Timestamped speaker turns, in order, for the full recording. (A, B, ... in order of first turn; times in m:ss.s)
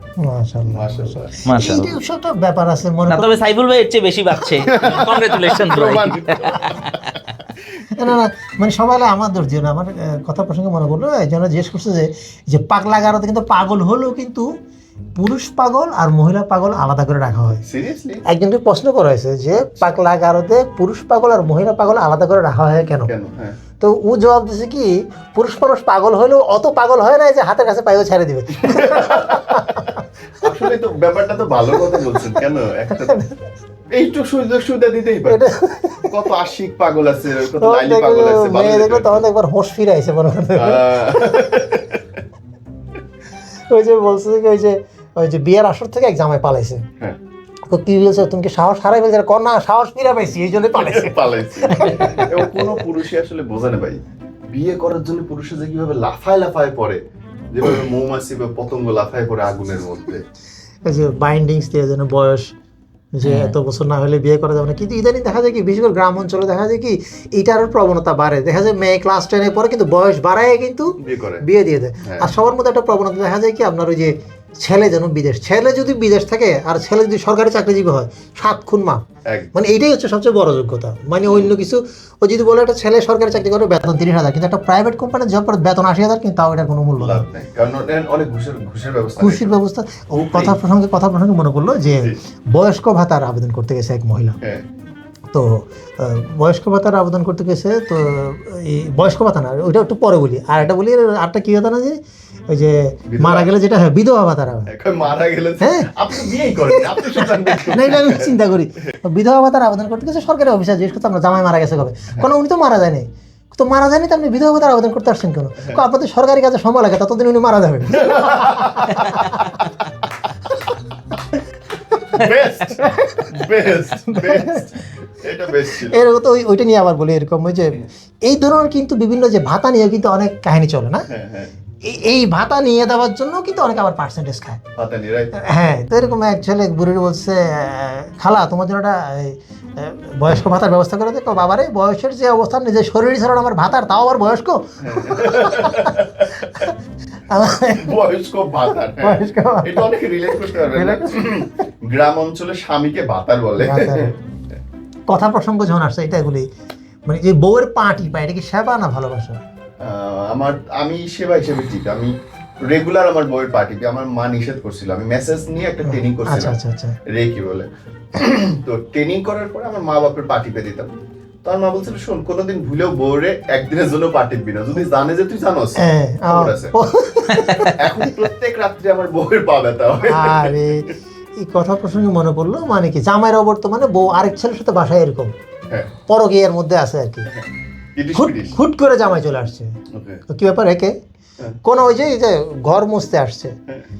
0:00.2-0:03.4 A
0:00.6-0:01.4 B
0:01.4-0:01.9 C
0:03.1-0:06.8 C
0:04.6-0:08.2 B
0:07.9-0:14.5 A
0:15.2-0:17.6 A
0:17.6-0:18.2 B
0:18.2-0:23.1 A
0:23.0-0:23.6 B
0:23.8-0:30.0 A
0:28.5-0:29.7 B
0:30.4-0:33.2 B
0:33.9-0:35.4 B
0:35.3-0:36.1 A
0:36.1-0:39.2 B
0:37.6-0:41.4 A
0:40.6-0:42.0 B
0:43.7-0:46.8 A
0:47.7-0:52.8 A
0:50.7-0:54.0 B
0:54.5-0:57.0 B
0:57.5-1:00.2 B
1:00.8-1:02.5 A
1:03.2-1:27.2 A
1:03.2-1:03.5 C
1:11.0-1:11.4 B
1:12.0-1:12.3 B
1:19.2-1:19.5 B
1:27.0-1:29.5 B
1:29.2-1:34.4 A
1:30.2-1:30.6 B
1:35.3-1:42.0 A
1:42.5-1:44.7 A
1:43.1-1:43.5 B
1:44.7-1:48.4 B
1:45.6-1:59.4 A
1:57.9-1:59.7 B
2:02.1-2:06.0 B
2:04.1-2:04.6 A
2:05.7-2:11.1 A
2:11.1-2:11.5 B
2:11.8-2:14.6 A
2:14.8-2:15.4 B
2:15.4-2:25.9 A
2:24.8-2:26.7 B
2:27.3-2:27.9 A
2:27.7-2:34.1 B
2:28.9-2:31.5 A
2:33.6-2:34.1 A
2:35.1-2:36.4 A
2:37.1-2:39.4 A
2:39.8-2:46.6 B
2:45.8-2:47.0 A
2:47.1-2:50.9 B
2:51.4-2:56.7 B
2:55.8-2:57.7 A
2:57.3-2:57.8 C
2:57.6-3:00.6 B
3:00.0-3:05.3 A
3:06.0-3:07.3 A
3:07.3-3:08.6 B
3:08.1-3:09.8 A
3:09.9-3:10.2 B
3:10.3-3:11.0 A
3:11.6-3:13.6 A